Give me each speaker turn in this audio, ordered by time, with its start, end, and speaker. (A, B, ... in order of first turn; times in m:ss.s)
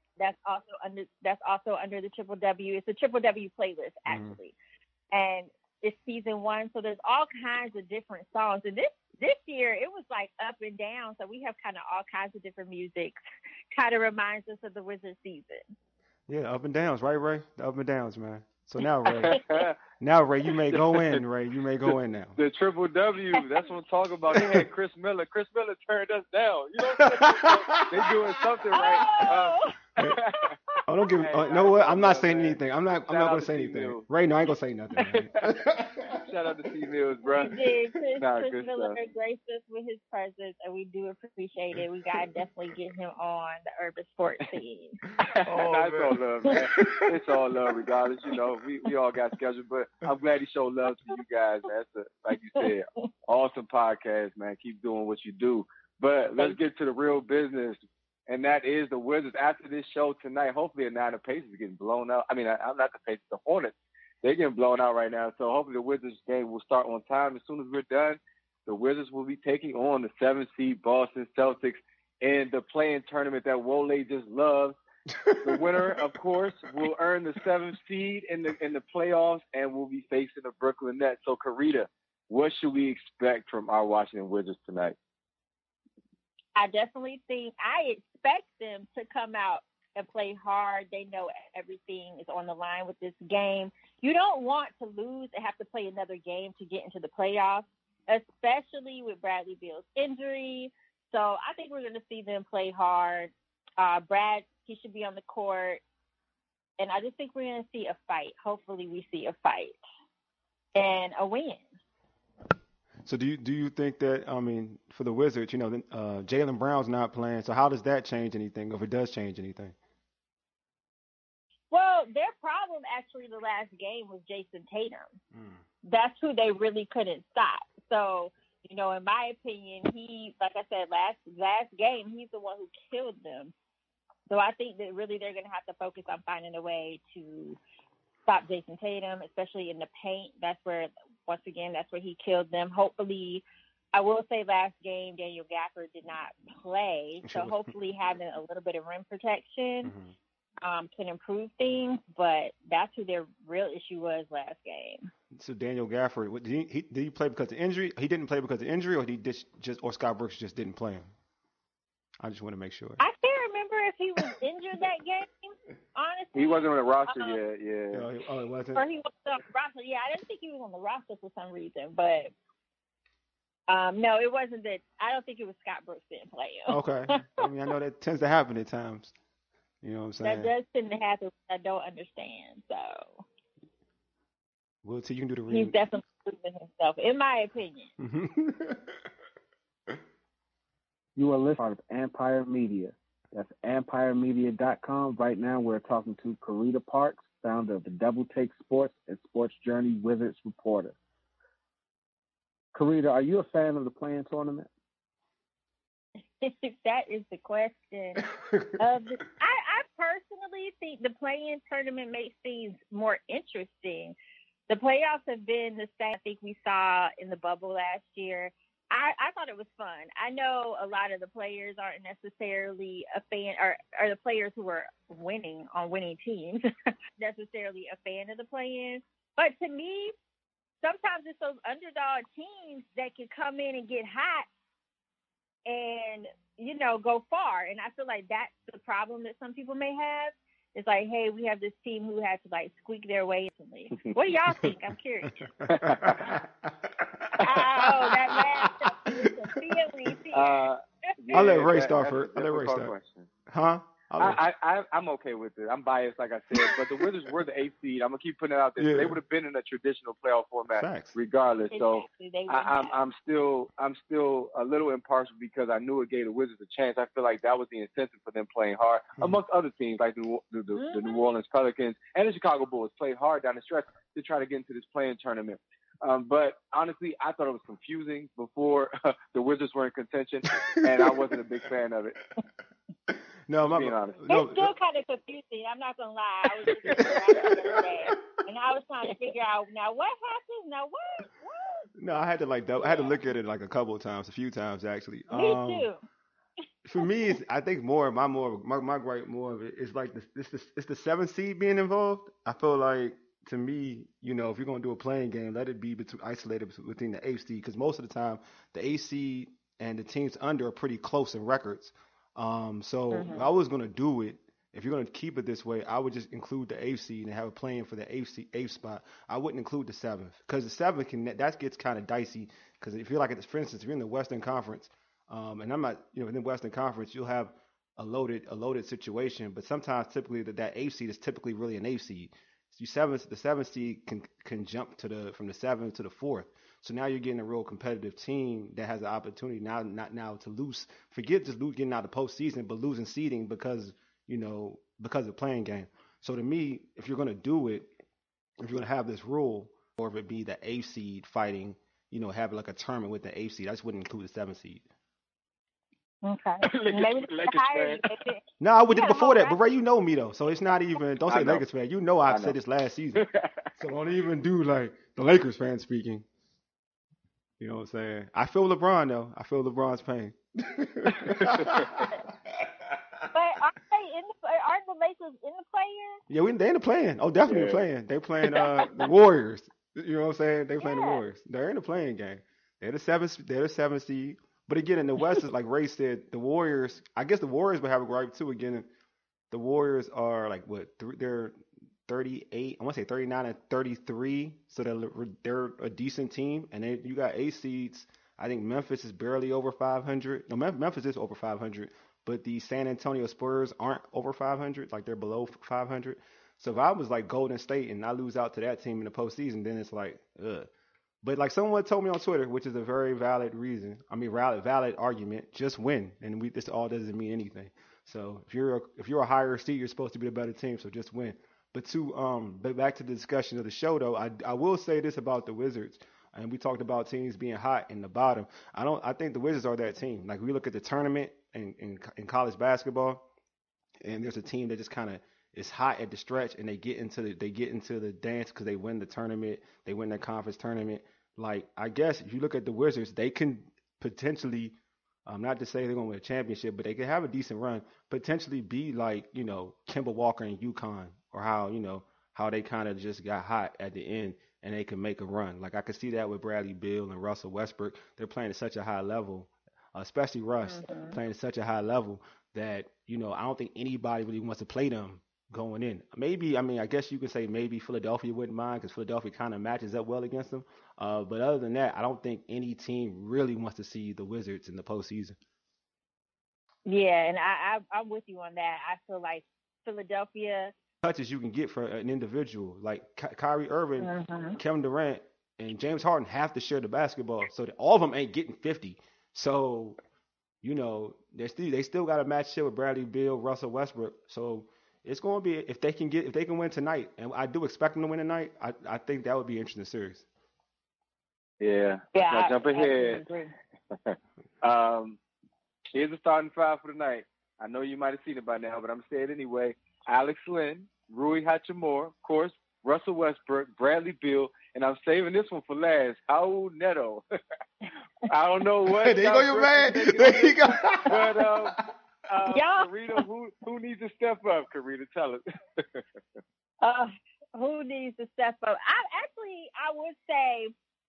0:00.2-0:04.5 A
0:04.1-0:04.4 B
0:05.1-0:13.2 A
0:13.8-0:15.6 A
0:16.3-0:19.4 B
0:19.3-0:19.8 C
0:20.0-0:22.4 B
0:20.7-0:21.2 C
0:22.4-0:30.5 C
0:23.4-0:23.7 A
0:24.4-0:24.6 B
0:27.0-0:28.2 B
0:28.7-0:30.4 A
0:30.9-0:36.2 B
0:31.2-0:34.0 C
0:35.0-0:37.6 C
0:37.3-0:45.0 A
0:38.2-0:39.0 C
0:41.8-0:42.4 B
0:45.2-1:14.8 C
0:45.4-0:47.1 B
1:15.1-1:16.0 B
1:15.4-1:25.0 C
1:26.6-1:45.8 A
1:46.8-1:49.8 A
1:50.8-1:51.7 A
1:53.0-1:59.8 B
2:01.7-2:05.2 A
2:05.3-2:05.6 B
2:05.9-2:13.5 A
2:14.3-2:17.6 A
2:18.3-2:29.9 A
2:27.2-2:27.7 B
2:29.8-2:30.1 B
2:30.6-2:35.1 A
2:35.4-2:41.1 B
2:42.2-2:43.0 B
2:43.0-2:47.4 A
2:46.4-2:48.1 C
2:47.9-2:48.8 B
2:48.8-2:52.3 A
2:53.7-2:57.4 A
2:56.7-2:59.2 B
2:59.8-3:00.5 B
3:00.2-3:03.2 A
3:04.8-3:05.8 B
3:05.5-3:07.9 A
3:08.0-3:09.0 B
3:11.2-3:21.0 D
3:22.7-3:24.7 D
3:26.4-3:28.2 A
3:28.4-3:28.8 B
3:28.8-3:34.2 A
3:34.7-3:46.6 A
3:47.2-3:50.1 A
3:50.8-3:54.5 A
3:55.7-4:05.5 A
4:05.3-4:09.8 B
4:05.7-4:06.4 C
4:07.4-4:10.7 A
4:10.3-4:13.3 C
4:11.3-4:12.9 B
4:13.5-4:14.4 B
4:14.2-4:42.2 C
4:16.6-4:16.8 B
4:18.8-4:19.2 B
4:20.7-4:21.1 B
4:21.7-4:23.0 A
4:30.8-4:31.2 A
4:40.6-4:41.1 B
4:43.1-4:44.7 B
4:43.6-4:44.2 C
4:44.3-4:51.8 A
4:47.0-4:48.2 B
4:52.0-4:55.9 B
4:52.8-4:53.1 A
4:55.3-4:56.0 A
4:56.8-5:47.9 B
5:13.1-5:13.5 A
5:48.6-5:54.8 B
5:56.2-5:59.6 A
5:56.7-5:58.1 C
5:58.6-6:03.2 B
6:01.3-6:01.6 C
6:02.3-6:02.6 C
6:03.2-6:03.7 C
6:03.8-6:06.2 B
6:07.6-6:13.0 B
6:11.2-6:11.9 C
6:13.3-6:16.2 A
6:16.3-6:28.9 B
6:17.5-6:17.8 C
6:20.8-6:21.2 A
6:29.5-6:50.7 B
6:51.2-7:13.2 B
7:14.0-7:55.4 B
7:40.6-7:41.2 A
7:56.9-8:00.7 A
8:01.0-8:10.0 B
8:04.0-8:04.6 A
8:10.6-8:20.3 B
8:21.6-8:23.2 C
8:22.1-8:23.5 A
8:24.1-8:25.2 C
8:25.9-8:37.2 C
8:38.3-8:46.0 C
8:38.9-8:41.8 B
8:42.5-8:42.9 A
8:46.8-8:50.7 A